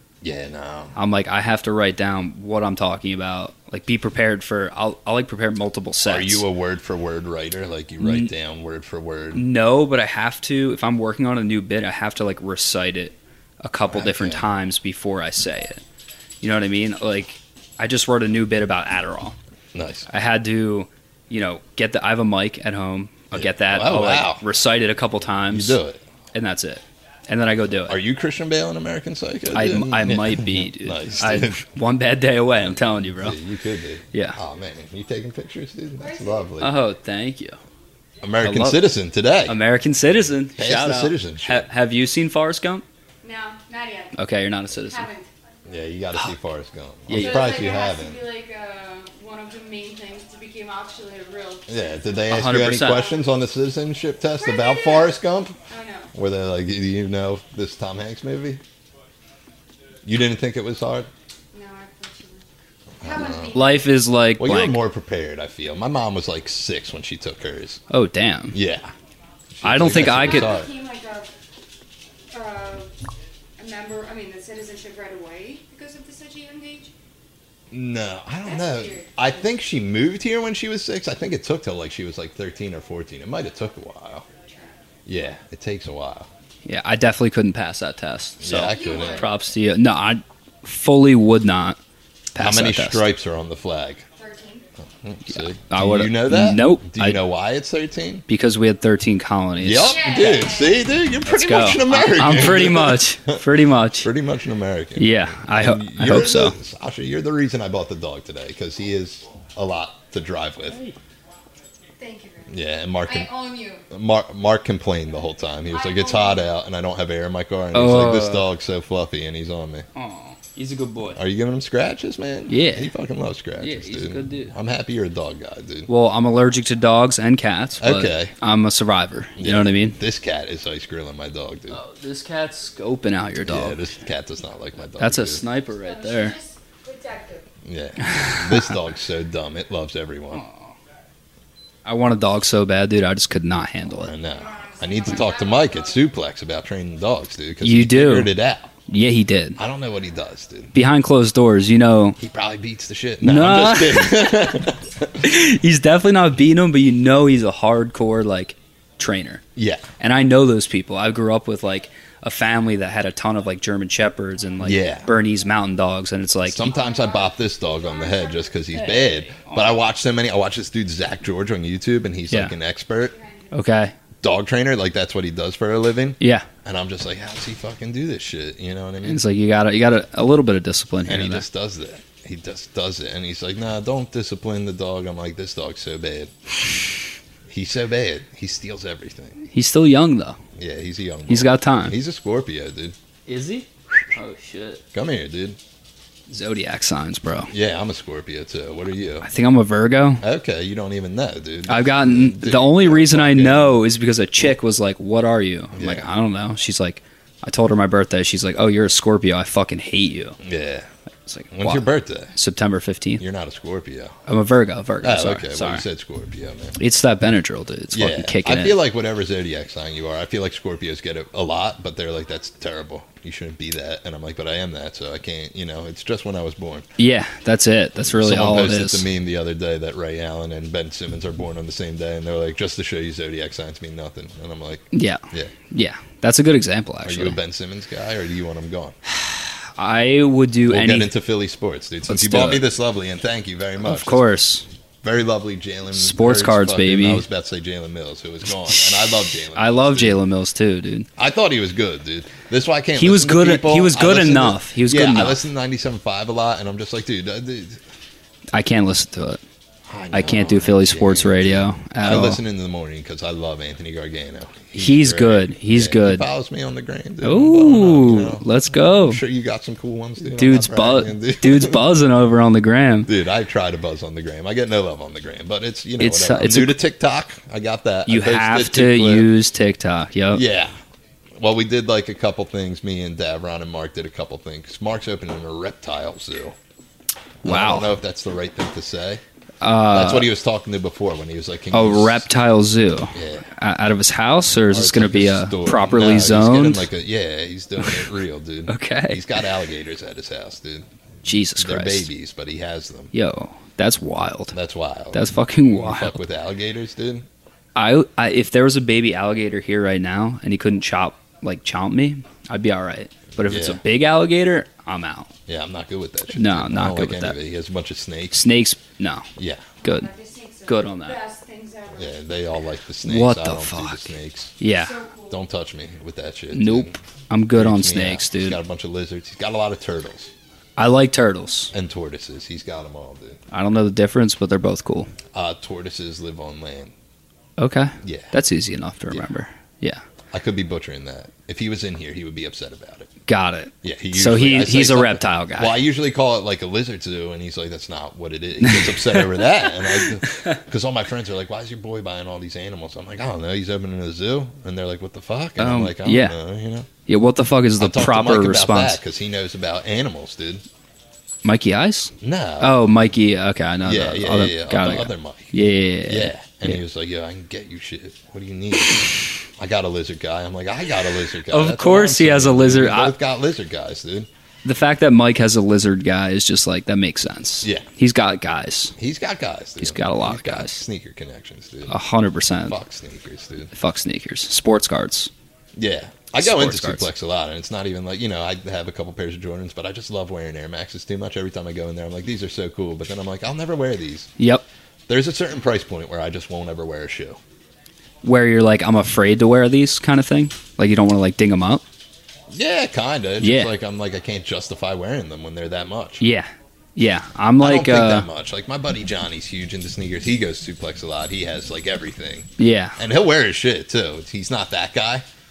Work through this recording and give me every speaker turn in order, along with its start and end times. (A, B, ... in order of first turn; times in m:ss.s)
0:00.2-0:01.0 A
0:01.0-0:06.4 B
0:06.0-0:09.5 A
0:08.0-0:08.3 B
0:09.3-0:15.8 B
0:13.9-0:14.5 A
0:16.4-0:19.4 B
0:19.7-0:20.1 A
0:20.1-0:25.8 B
0:23.3-0:24.4 A
0:25.5-0:26.0 A
0:26.3-0:28.0 B
0:27.9-0:31.6 A
0:29.5-0:33.4 B
0:32.6-0:36.7 A
0:34.1-0:34.4 B
0:36.0-0:36.5 C
0:36.6-0:37.6 B
0:38.2-0:39.6 A
0:38.4-0:38.9 B
0:39.5-0:42.8 B
0:40.6-0:41.7 A
0:43.2-0:45.3 C
0:44.2-0:45.1 B
0:45.7-0:48.2 A
0:47.1-0:47.7 B
0:47.1-0:51.8 C
0:51.7-0:55.6 A
0:52.3-0:53.1 B
0:54.4-0:55.2 C
0:55.7-0:56.1 C
0:56.1-0:58.6 A
1:00.0-1:01.1 A
1:01.5-1:02.4 C
1:03.0-1:03.6 A
1:03.0-1:03.9 C
1:03.5-1:04.8 B
1:04.4-1:07.8 A
1:07.9-1:08.6 B
1:08.5-1:08.9 A
1:09.6-1:10.7 A
1:09.6-1:10.5 B
1:09.9-1:11.3 C
1:12.3-1:12.9 C
1:13.6-1:16.9 C
1:17.7-1:24.3 A
1:18.4-1:19.5 C
1:24.4-1:24.8 C
1:25.1-1:26.3 A
1:26.6-1:31.8 B
1:28.4-1:29.3 A
1:28.7-1:29.4 C
1:32.3-1:33.1 B
1:32.4-1:34.0 A
1:34.2-1:34.6 C
1:35.0-1:38.2 A
1:35.3-1:37.2 B
1:38.3-1:40.5 B
1:39.6-1:43.4 A
1:39.9-1:40.9 C
1:41.2-1:44.1 B
1:44.0-1:50.8 A
1:45.0-1:46.6 B
1:50.7-1:51.0 B
1:52.0-1:53.8 C
1:52.5-1:53.3 A
1:53.9-1:59.9 A
1:55.7-1:56.5 C
1:57.7-1:58.5 B
2:00.0-2:01.2 B
2:01.2-2:05.9 A
2:02.5-2:02.9 B
2:03.6-2:04.5 B
2:05.9-2:10.0 B
2:07.8-2:08.3 A
2:09.4-2:11.8 A
2:11.7-2:13.8 B
2:13.4-2:15.4 A
2:15.0-2:16.4 B
2:15.7-2:17.5 C
2:17.6-2:20.4 A
2:18.1-2:18.7 B
2:20.3-2:20.7 B
2:21.8-2:24.1 B
2:24.0-2:28.7 A
2:24.3-2:26.0 C
2:27.6-2:28.3 B
2:28.9-2:29.6 B
2:29.6-2:30.7 A
2:30.7-2:32.2 B
2:32.2-2:35.1 A
2:33.2-2:34.4 B
2:35.2-2:39.4 B
2:39.6-2:39.8 A
2:40.0-2:46.8 B
2:44.6-2:45.1 A
2:46.5-2:53.2 A
2:46.6-2:48.8 C
2:48.7-2:49.8 B
2:53.1-2:53.5 C
2:53.5-2:53.9 B
2:54.2-2:59.2 A
2:56.2-2:56.5 B
2:59.0-3:01.5 B
3:01.1-3:06.3 A
3:07.5-3:09.4 A
3:09.4-3:10.4 B
3:10.6-3:13.0 A
3:11.3-3:12.0 B
3:13.3-3:14.8 B
3:14.9-3:15.6 A
3:16.3-3:17.5 B
3:17.5-3:19.3 A
3:19.2-3:20.2 B
3:20.2-3:23.8 A
3:21.7-3:30.4 B
3:25.7-3:26.1 A
3:30.4-3:30.9 A
3:31.3-3:33.2 B
3:31.5-3:32.3 A
3:33.2-3:34.2 A
3:34.3-3:35.8 B
3:35.0-3:36.8 A
3:36.8-3:38.8 B
3:37.9-3:46.9 A
3:47.0-3:49.1 B
3:48.0-3:55.5 A
3:54.9-3:57.4 B
3:57.0-3:59.0 A
3:59.1-4:01.1 B
4:00.7-4:04.3 A
4:02.1-4:02.6 B
4:03.8-4:04.6 B
4:05.0-4:10.2 A
4:05.9-4:07.2 B
4:09.5-4:11.1 B
4:11.2-4:17.8 A
4:13.0-4:15.4 B
4:18.5-4:19.4 B
4:19.9-4:31.8 A
4:20.1-4:22.4 B
4:24.8-4:26.3 B
4:27.2-4:29.2 B
4:30.3-4:33.1 B
4:33.1-4:39.3 A
4:36.0-4:36.8 B
4:38.1-4:40.4 B
4:40.3-4:40.8 A
4:41.4-4:46.6 A
4:47.4-4:47.9 B
4:47.4-4:49.2 A
4:49.6-4:50.3 B
4:49.9-4:52.2 A
4:51.7-4:56.9 B
4:53.1-4:53.5 A
4:54.7-5:00.9 A
4:58.7-4:59.2 B
5:01.2-5:02.1 B
5:01.6-5:03.1 A
5:03.1-5:04.6 B
5:04.5-5:07.3 A
5:05.1-5:06.2 B
5:07.8-5:15.3 B
5:13.4-5:13.8 A
5:15.5-5:18.5 A
5:16.3-5:17.4 B
5:18.3-5:19.3 B
5:19.4-5:19.7 A
5:19.8-5:20.1 B
5:19.8-5:22.2 C
5:20.7-5:21.2 B
5:21.9-5:24.6 A
5:23.0-5:24.1 B
5:24.6-5:25.0 B
5:24.6-5:25.4 C
5:25.3-5:27.0 A
5:26.5-5:28.6 B
5:27.5-5:30.3 A
5:30.8-5:31.7 B
5:31.7-5:33.4 A
5:33.5-5:35.1 B
5:35.3-5:36.9 A
5:37.6-5:40.0 B
5:38.0-5:38.4 A
5:40.3-5:43.1 A
5:43.3-5:45.8 B
5:43.8-5:56.9 A
5:48.6-5:50.6 B
5:55.6-5:56.4 B
5:57.1-5:59.0 B
5:57.8-6:00.6 A
6:01.4-6:06.8 B
6:02.2-6:02.8 A
6:03.8-6:14.3 A
6:11.5-6:13.2 B
6:14.6-6:19.0 B
6:19.0-6:22.0 A
6:19.8-6:20.8 B
6:21.9-6:22.8 B
6:22.7-6:23.7 A
6:23.7-6:25.3 B
6:25.8-6:34.3 A
6:26.4-6:27.1 B
6:34.4-6:34.6 B
6:35.1-6:37.4 A
6:38.2-6:41.8 B
6:42.5-6:46.2 A
6:43.4-6:43.7 B
6:46.2-6:48.3 B
6:47.6-6:55.2 A
6:52.6-6:53.0 B